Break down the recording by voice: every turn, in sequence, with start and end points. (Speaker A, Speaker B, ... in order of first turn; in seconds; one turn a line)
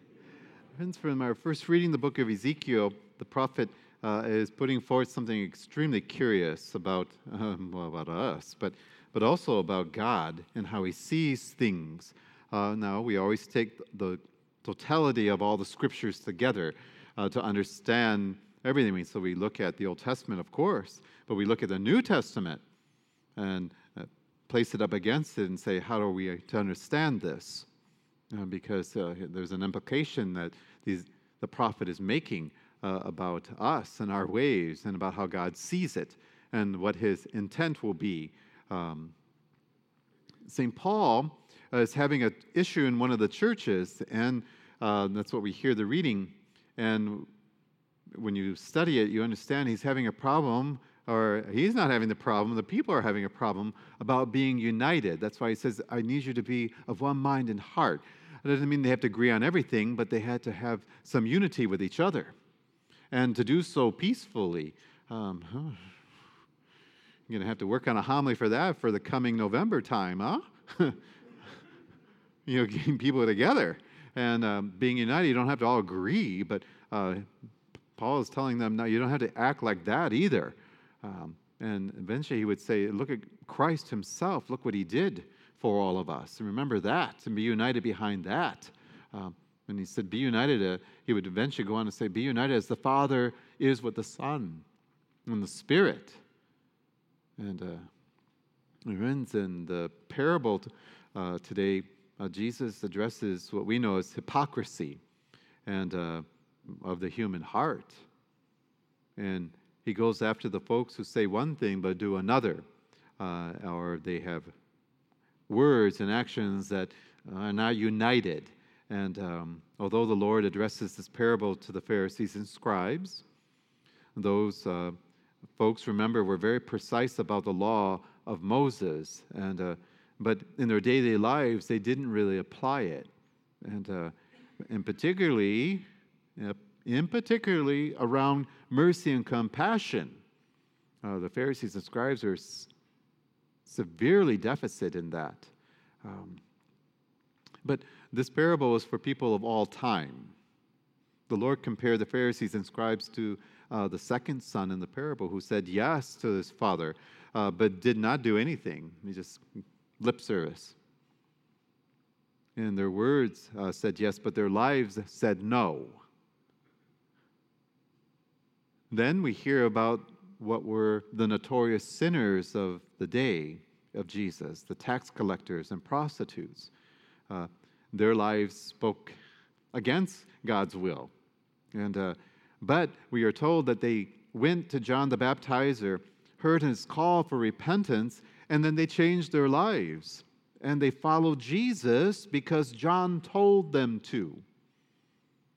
Speaker A: 0.8-22.6
Speaker A: 23.4-27.7
Speaker A: 28.3-39.1
Speaker A: 40.4-47.3
Speaker A: 48.1-62.3
Speaker A: 63.1-66.0
Speaker A: 67.3-71.0
Speaker A: 72.5-77.3
Speaker A: 77.9-94.7
Speaker A: 95.2-96.2
Speaker A: 97.4-97.9
Speaker A: 98.8-105.0
Speaker A: 105.7-108.0
Speaker A: 109.2-112.6
Speaker A: 113.2-114.5
Speaker A: 115.5-123.2
Speaker A: 124.2-125.0
Speaker A: 125.5-133.1
Speaker A: 133.6-135.8
Speaker A: 136.3-140.2
Speaker A: 141.0-142.7
Speaker A: 143.6-145.5
Speaker A: 146.0-146.4
Speaker A: 147.6-150.3
Speaker A: 151.3-159.4
Speaker A: 160.0-160.8
Speaker A: 162.6-166.0
Speaker A: 168.9-176.7
Speaker A: 177.3-179.2
Speaker A: 179.7-181.1
Speaker A: 181.7-194.4